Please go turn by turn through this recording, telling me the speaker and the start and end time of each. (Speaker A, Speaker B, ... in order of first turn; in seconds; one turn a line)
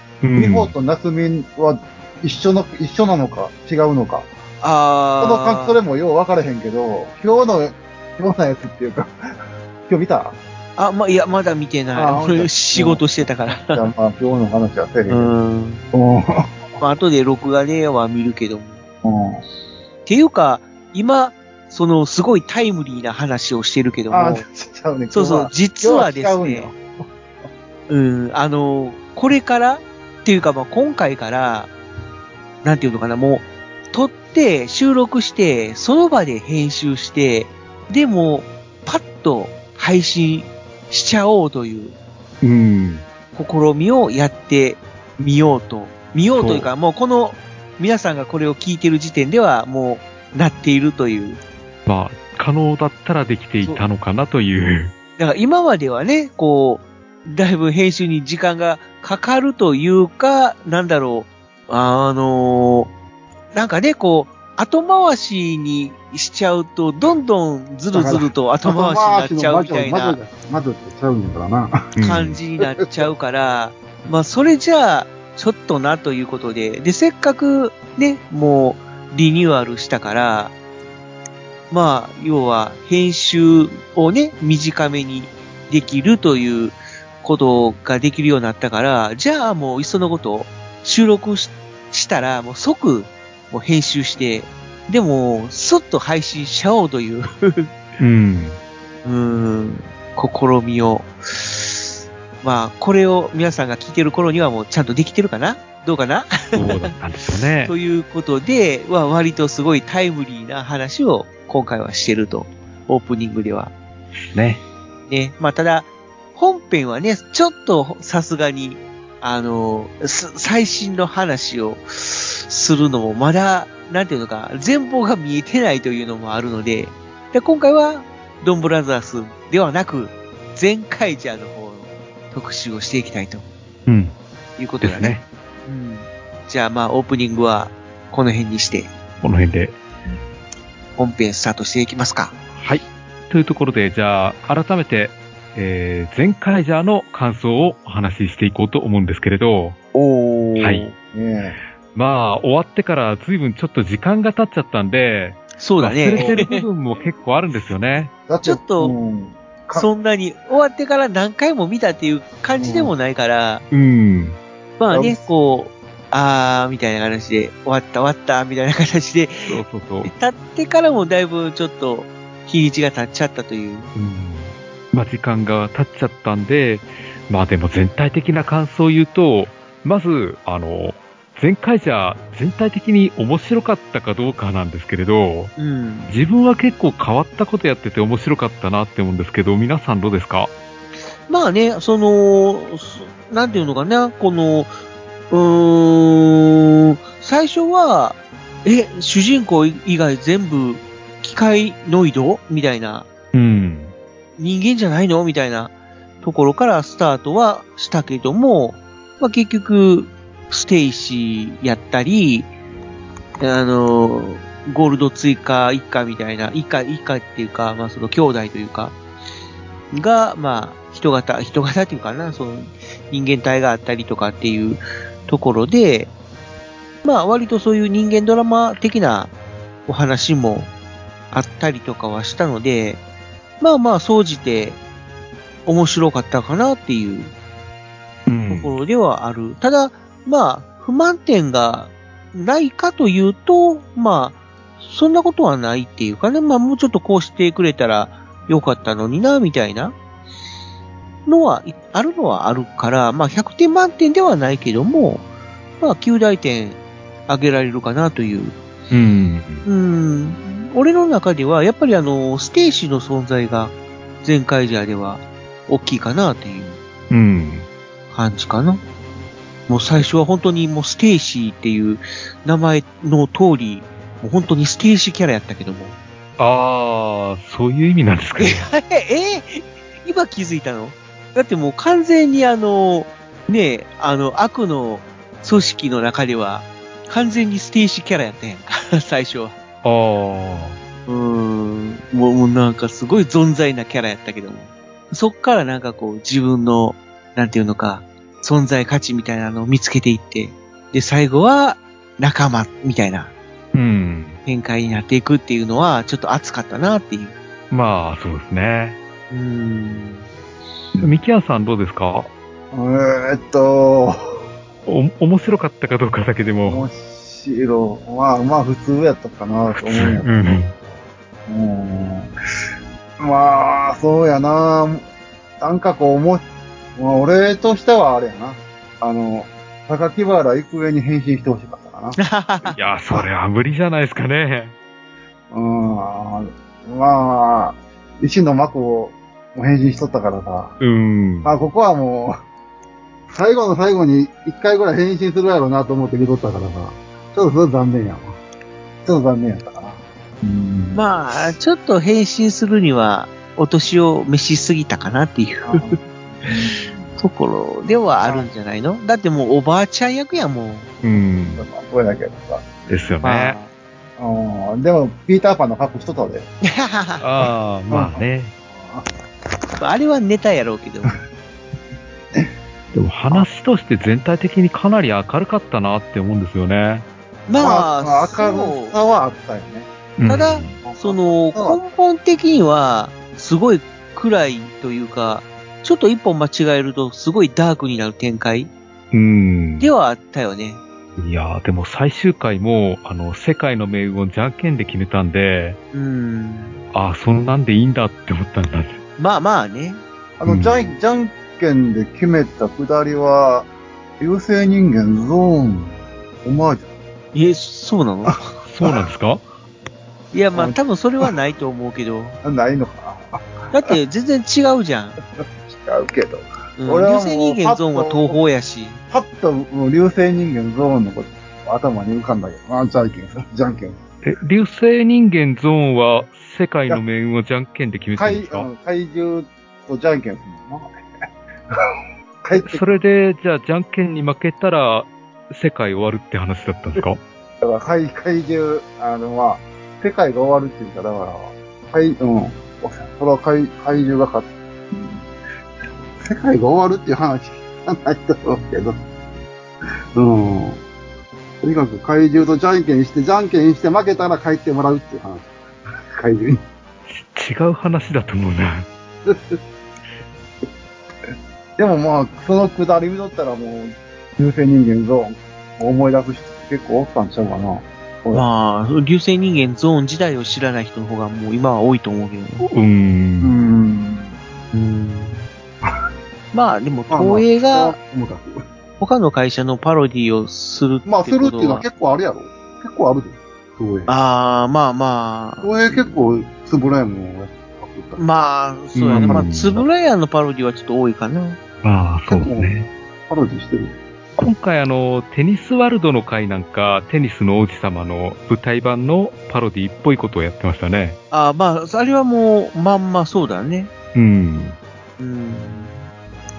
Speaker A: 0.2-0.7
Speaker B: 0.3-4.3
Speaker C: 4.6-5.8
Speaker B: 5.2-9.2
Speaker B: 9.9-10.4
Speaker C: 10.8-13.8
Speaker B: 11.9-13.0
Speaker B: 13.6-15.3
Speaker C: 15.1-15.8
Speaker B: 15.9-16.7
Speaker C: 16.8-18.8
Speaker B: 19.0-19.4
Speaker C: 20.1-24.4
Speaker B: 24.1-27.1
Speaker C: 25.1-26.7
Speaker C: 27.9-31.7
Speaker C: 32.6-42.0
Speaker A: 42.4-43.0
Speaker C: 43.3-51.4
Speaker A: 46.4-46.7
Speaker A: 51.9-54.9
Speaker C: 55.2-62.9
Speaker C: 63.5-70.2
Speaker B: 67.9-71.9
Speaker A: 72.0-72.4
Speaker C: 72.0-80.5
Speaker C: 81.7-97.7
Speaker A: 98.0-98.6
Speaker C: 99.0-101.9
Speaker C: 102.4-106.9
Speaker A: 106.5-107.7
Speaker C: 107.7-113.7
Speaker A: 114.3-114.6
Speaker C: 115.1-133.5
Speaker A: 133.9-134.2
Speaker C: 134.6-138.9
Speaker A: 134.8-135.2
Speaker A: 139.2-139.8
Speaker C: 141.0-142.3
Speaker A: 142.6-149.8
Speaker C: 149.9-150.9
Speaker A: 150.6-150.8
Speaker B: 151.1-151.6
Speaker A: 151.9-158.1
Speaker C: 155.6-156.7
Speaker B: 156.2-156.4
Speaker B: 158.3-159.9
Speaker C: 158.4-159.0
Speaker C: 159.8-163.7
Speaker B: 162.6-162.9
Speaker A: 163.7-164.4
Speaker C: 164.8-173.9
Speaker B: 164.9-165.2
Speaker A: 169.5-170.1
Speaker A: 173.9-185.5
Speaker C: 185.6-186.1
Speaker A: 186.1-190.5
Speaker C: 191.3-194.7
Speaker C: 195.3-203.1
Speaker A: 203.3-203.9
Speaker C: 204.4-212.5
Speaker C: 213.4-218.9
Speaker C: 219.9-226.1
Speaker C: 227.0-229.3
Speaker C: 229.9-230.7
Speaker C: 231.3-233.0
Speaker C: 233.6-234.8
Speaker C: 235.7-237.3
Speaker A: 238.3-238.8
Speaker C: 238.5-249.9
Speaker C: 251.3-255.2
Speaker C: 255.8-258.6
Speaker A: 258.9-259.6
Speaker C: 259.6-266.8
Speaker A: 267.1-267.7
Speaker C: 268.1-268.8
Speaker C: 269.7-275.9
Speaker A: 276.4-278.7
Speaker C: 278.4-289.6
Speaker A: 289.8-290.8
Speaker C: 291.1-303.3
Speaker A: 303.7-304.4
Speaker C: 304.5-307.4
Speaker A: 307.7-309.0
Speaker C: 309.3-310.2
Speaker A: 311.0-312.3
Speaker B: 312.7-314.4
Speaker A: 314.9-316.9
Speaker B: 316.6-320.7
Speaker A: 319.7-320.7
Speaker B: 321.5-322.3
Speaker B: 323.2-325.0
Speaker B: 325.6-332.2
Speaker C: 332.2-332.8
Speaker A: 332.8-334.7
Speaker B: 335.5-340.8
Speaker A: 340.8-341.5
Speaker B: 341.4-342.4
Speaker B: 343.3-348.4
Speaker B: 349.1-351.5
Speaker C: 350.9-355.9
Speaker B: 355.7-357.1
Speaker C: 357.2-360.9
Speaker B: 358.2-358.5
Speaker A: 361.0-361.7
Speaker B: 361.5-362.8
Speaker A: 362.9-363.6
Speaker C: 363.2-363.7
Speaker B: 364.2-366.5
Speaker C: 366.6-367.2
Speaker A: 367.2-368.5
Speaker B: 367.9-369.1
Speaker C: 369.8-371.2
Speaker A: 372.9-377.1
Speaker C: 377.5-379.0
Speaker B: 377.6-379.9
Speaker A: 380.2-380.8
Speaker C: 380.3-388.7
Speaker B: 380.8-381.8
Speaker A: 389.1-389.9
Speaker C: 389.8-390.8
Speaker A: 391.2-395.8
Speaker C: 395.9-396.8
Speaker A: 396.9-399.0
Speaker C: 399.2-400.0
Speaker B: 400.4-403.7
Speaker A: 400.5-400.9
Speaker B: 404.2-406.9
Speaker C: 407.3-408.4
Speaker A: 408.6-409.4
Speaker C: 410.3-412.4
Speaker B: 410.5-411.3
Speaker B: 412.4-413.5
Speaker C: 413.7-415.2
Speaker B: 415.4-418.4
Speaker C: 416.8-419.0
Speaker B: 419.1-424.0
Speaker A: 424.2-428.7
Speaker B: 428.2-431.0
Speaker B: 432.4-432.9
Speaker A: 432.6-437.2
Speaker B: 437.6-445.2
Speaker B: 446.2-449.0
Speaker B: 450.1-450.8
Speaker B: 451.6-455.5
Speaker B: 456.2-456.6
Speaker A: 457.2-458.9
Speaker B: 459.2-459.6
Speaker B: 461.8-468.4
Speaker C: 468.3-472.7
Speaker A: 472.6-473.6
Speaker B: 473.4-474.3
Speaker C: 474.7-475.4
Speaker C: 476.5-478.0
Speaker B: 477.1-478.6
Speaker C: 479.0-481.9
Speaker B: 481.1-484.1
Speaker C: 484.1-485.8
Speaker B: 485.6-488.2
Speaker C: 488.2-491.6
Speaker A: 489.0-489.9
Speaker B: 489.1-489.5
Speaker A: 491.8-492.9
Speaker B: 492.3-492.7
Speaker B: 493.3-494.0
Speaker A: 494.4-501.2
Speaker C: 501.3-503.9
Speaker A: 504.1-504.8
Speaker C: 505.2-506.0